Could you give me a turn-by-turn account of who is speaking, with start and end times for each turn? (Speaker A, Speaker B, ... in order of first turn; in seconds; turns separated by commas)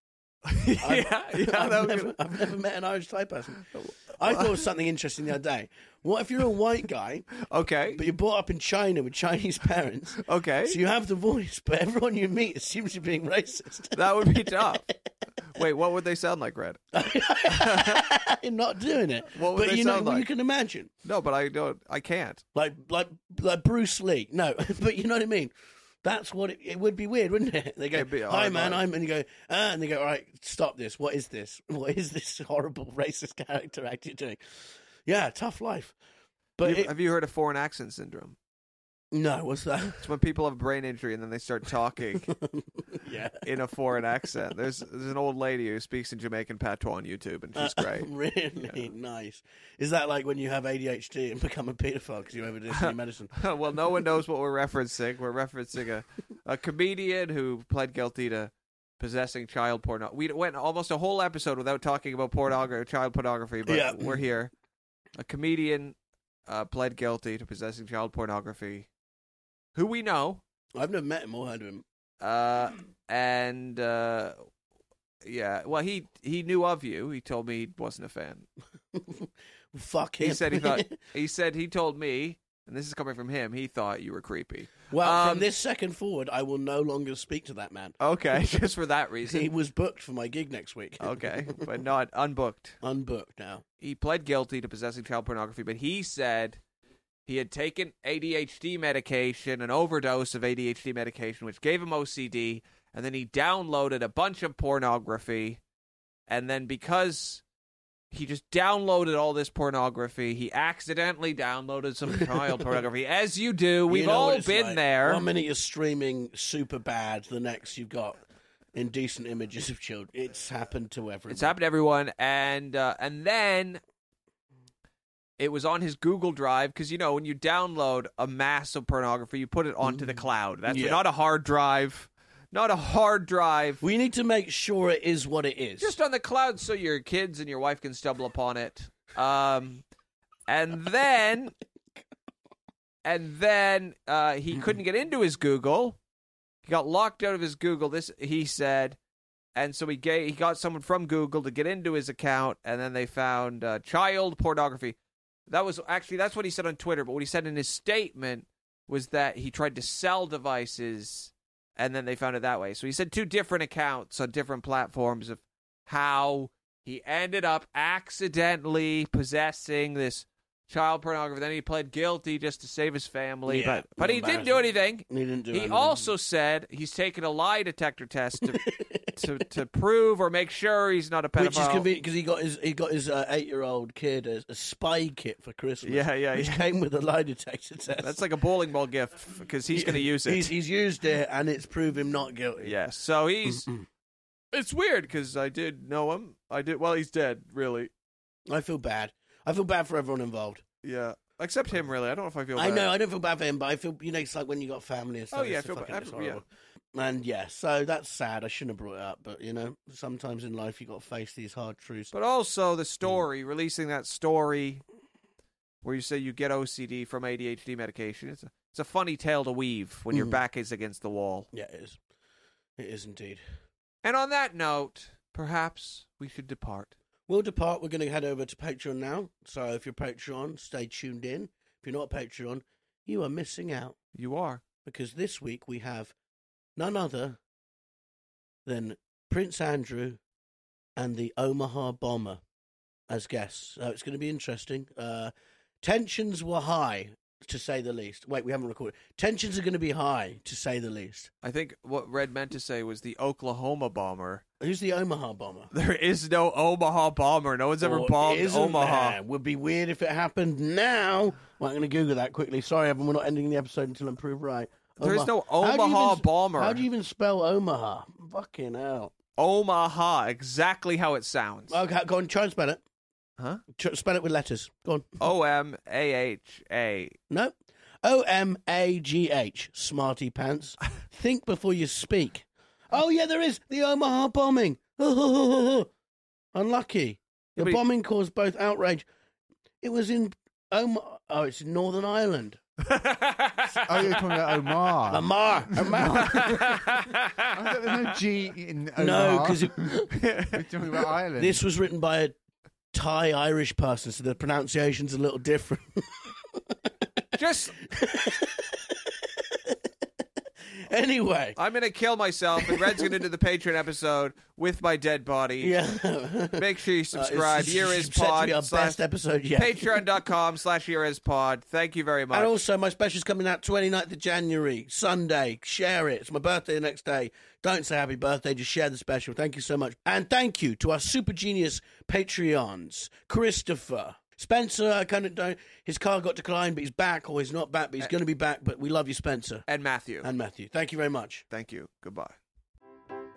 Speaker A: 0.4-2.1, Speaker B: 0.8-7.3, Speaker A: 3.6-4.7, Speaker A: 7.4-8.0, Speaker B: 7.9-14.9, Speaker A: 10.2-10.8, Speaker A: 13.9-14.8, Speaker A: 15.4-16.8, Speaker B: 16.9-20.9, Speaker A: 17.4-18.1, Speaker A: 19.3-20.2, Speaker A: 21.0-22.4, Speaker B: 22.5-25.5, Speaker B: 26.0-34.4, Speaker A: 27.9-28.8, Speaker B: 35.0-36.0, Speaker B: 36.6-36.9, Speaker A: 36.6-38.4, Speaker B: 39.1-40.0, Speaker A: 40.0-42.3, Speaker B: 42.3-43.4, Speaker A: 43.4-48.9, Speaker B: 47.5-53.5, Speaker A: 52.7-64.5, Speaker B: 63.6-64.2, Speaker A: 65.2-68.9, Speaker A: 69.7-70.4, Speaker B: 70.8-71.8, Speaker A: 72.2-74.4, Speaker A: 75.2-78.5, Speaker B: 78.9-81.0, Speaker A: 80.2-85.5, Speaker B: 84.9-88.6, Speaker A: 88.0-89.4, Speaker B: 89.2-91.7, Speaker A: 91.0-92.8, Speaker B: 92.8-93.6, Speaker A: 93.8-96.6, Speaker A: 97.2-105.6, Speaker A: 106.3-107.4, Speaker A: 108.1-115.2, Speaker B: 113.9-118.2, Speaker B: 118.7-121.5, Speaker A: 121.3-123.8, Speaker A: 125.4-133.8, Speaker B: 130.7-131.0, Speaker B: 133.8-135.9, Speaker A: 135.8-139.8, Speaker A: 140.5-141.5, Speaker A: 143.0-146.0, Speaker A: 146.7-149.0, Speaker A: 149.5-178.6, Speaker B: 173.5-176.1, Speaker B: 178.4-179.4, Speaker A: 179.2-181.9, Speaker B: 181.4-188.2, Speaker A: 185.8-186.7, Speaker A: 188.0-190.5, Speaker B: 189.7-192.7, Speaker A: 192.6-193.7, Speaker A: 194.5-197.9, Speaker B: 198.5-200.6, Speaker A: 200.8-202.9, Speaker B: 202.6-212.1, Speaker A: 205.3-206.4, Speaker A: 212.1-214.8, Speaker A: 215.8-221.5, Speaker B: 220.1-220.4, Speaker B: 221.5-222.0, Speaker B: 222.8-223.4, Speaker A: 224.0-226.9, Speaker B: 227.3-234.0, Speaker A: 234.1-234.6, Speaker B: 234.8-236.1, Speaker B: 236.8-237.4, Speaker B: 238.7-240.2, Speaker B: 241.0-242.4, Speaker B: 243.1-251.3, Speaker A: 251.4-254.4, Speaker B: 254.6-255.7, Speaker A: 255.7-259.2, Speaker B: 257.8-269.1, Speaker A: 265.0-266.8, Speaker A: 269.4-271.8, Speaker B: 271.7-272.8, Speaker B: 273.7-275.1, Speaker A: 275.2-277.1, Speaker B: 277.3-285.9, Speaker B: 286.5-289.0, Speaker B: 289.8-292.6, Speaker A: 292.8-294.6, Speaker C: 293.8-301.6, Speaker B: 295.1-296.8, Speaker A: 296.2-298.2, Speaker B: 299.0-300.1, Speaker A: 300.1-301.1, Speaker B: 301.4-302.4, Speaker B: 302.9-306.6, Speaker A: 307.4-307.8, Speaker B: 307.8-309.8, Speaker B: 310.9-311.6, Speaker A: 311.6-315.8, Speaker B: 312.6-313.0, Speaker B: 315.6-320.0, Speaker A: 316.6-319.0, Speaker A: 319.6-322.5, Speaker B: 322.3-339.6, Speaker A: 339.7-340.3, Speaker B: 340.2-341.4, Speaker A: 341.5-342.4